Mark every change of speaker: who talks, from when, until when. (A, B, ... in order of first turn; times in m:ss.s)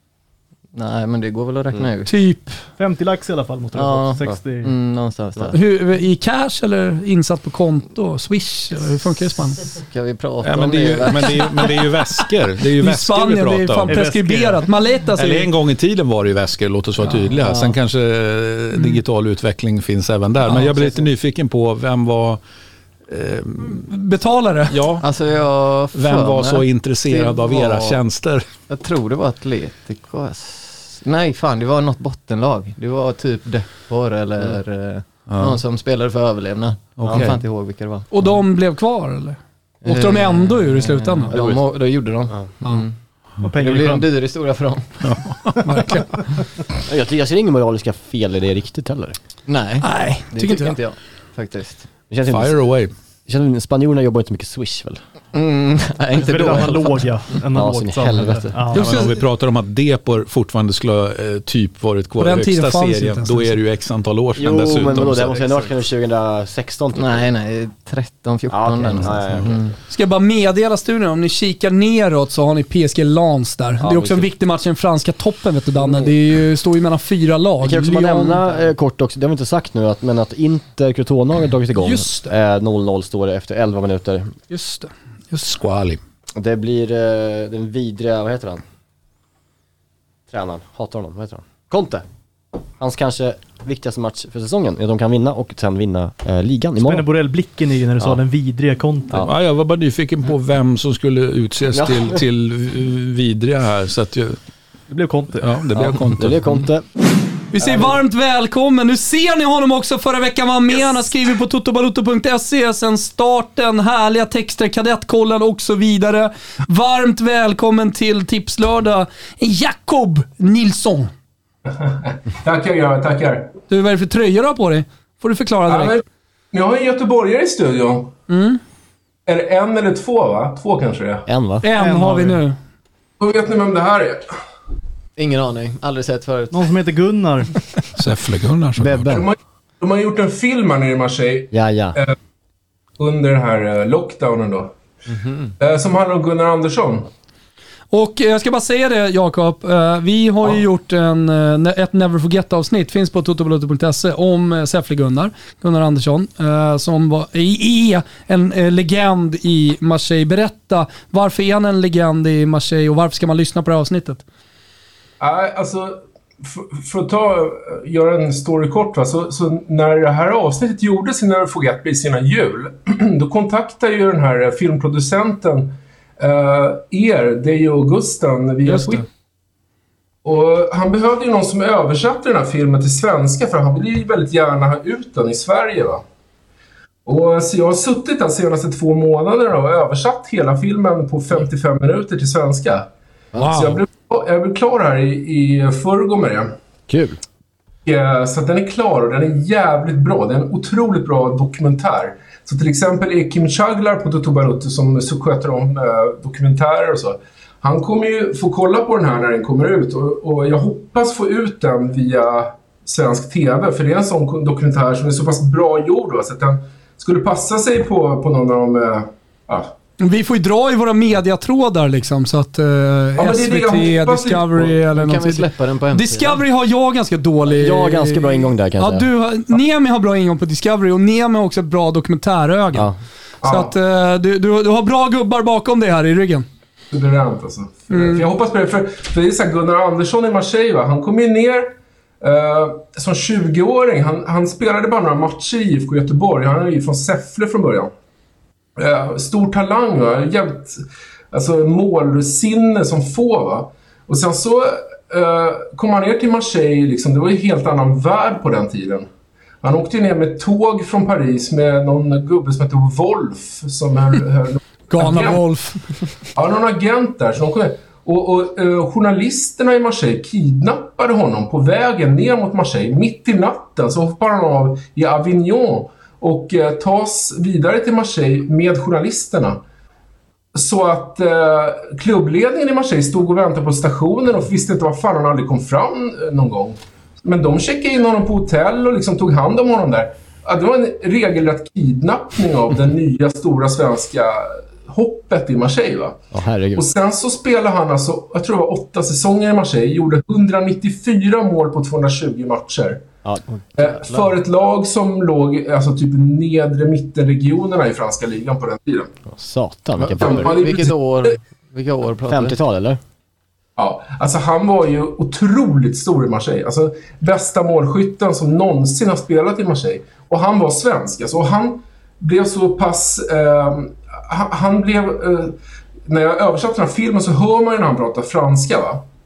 0:00.7-0:02.1 A
0:02.1-0:02.6 B
0:02.8-0:04.8 C
0:03.8-0:05.6 A
0:05.5-0:09.6 B
0:09.6-0:11.8 A
0:10.4-0:14.0 D
0:12.8-0:15.5 B
0:13.8-0:14.6 C
0:15.2-0:22.4 D
0:17.4-0:17.8 A
0:20.4-0:21.1 A
0:23.1-0:23.9 D
0:23.6-0:24.8 B
0:24.7-0:25.1 D
0:25.0-0:28.0 A
0:25.9-0:28.4 D
0:28.7-0:38.4 A
0:35.3-0:35.6 D
0:37.0-0:37.4 D
0:38.1-0:41.3 B
0:39.8-0:43.0 A
0:41.3-0:41.6 E
0:43.4-0:44.1 C
0:43.6-0:45.0 A
0:45.0-0:45.6 D
0:45.6-0:46.2 B
0:46.9-0:49.2 E
0:49.5-0:52.0 A
0:49.8-0:50.8 B
0:52.1-0:52.7 E
0:52.3-0:52.9 D
0:53.3-0:55.0 E
0:55.3-0:57.4 A
0:56.1-0:59.1 C
0:56.4-0:56.7 E
0:57.5-0:58.6 E
0:58.1-0:58.3 A
0:58.7-0:59.1 B
0:58.7-1:05.4 D
1:02.2-1:03.6 B
1:04.4-1:07.3 E
1:07.0-1:09.8 A
1:08.5-1:09.6 E
1:09.0-1:09.5 D
1:09.9-1:18.5 B
1:13.8-1:14.3 E
1:17.6-1:24.4 E
1:21.8-1:22.3 B
1:24.5-1:25.6 B
1:25.5-1:26.0 D
1:26.4-1:28.6 E
1:30.3-1:32.0 E
1:32.8-1:37.1 E
1:36.8-1:39.3 C
1:39.2-1:44.4 D
1:44.9-1:45.6 C
1:45.4-1:46.7 D
1:45.9-1:46.8 E
1:47.5-2:01.1 B
2:01.7-2:03.6 F
2:03.7-2:06.0 B
2:05.7-2:08.1 F
2:08.3-2:08.6 B
2:09.3-2:11.3 F
2:11.3-2:11.6 E
2:11.6-2:12.6 B
2:11.8-2:12.4 C
2:13.2-2:14.3 F
2:15.2-2:16.7 A
2:16.5-2:17.5 C
2:18.0-2:19.2 D
2:18.8-2:19.2 E
2:19.1-2:22.1 F
2:21.5-2:22.0 E
2:23.0-2:24.7 F
2:25.1-2:25.5 A
2:25.6-2:27.1 F
2:27.9-2:44.2 B
2:45.2-2:59.1 F
2:58.6-2:59.0 B
3:00.2-3:06.0 F
3:07.1-3:12.9 F
3:13.4-3:13.8 D
3:13.5-3:16.5 F
3:16.9-3:17.2 E
3:17.9-3:39.7 F
3:40.0-3:52.9 B
3:43.2-3:44.7 F
3:44.8-3:46.4 A
3:47.5-3:49.1 E
3:53.4-3:53.7 F
3:53.4-3:56.5 B
3:56.9-4:07.9 F
3:57.9-3:58.3 B
4:08.8-4:19.1 F
4:19.6-4:25.4 F
4:24.9-4:25.8 B
4:26.4-4:39.6 F
4:40.6-4:56.2 F
4:56.3-4:56.8 E
4:56.8-5:03.0 F
5:03.2-5:04.2 E
5:03.8-5:09.1 F
5:09.3-5:10.9 E
5:10.0-5:12.6 A
5:10.2-5:11.4 F
5:12.3-5:13.0 E
5:13.8-5:25.6 F
5:26.1-5:29.0 F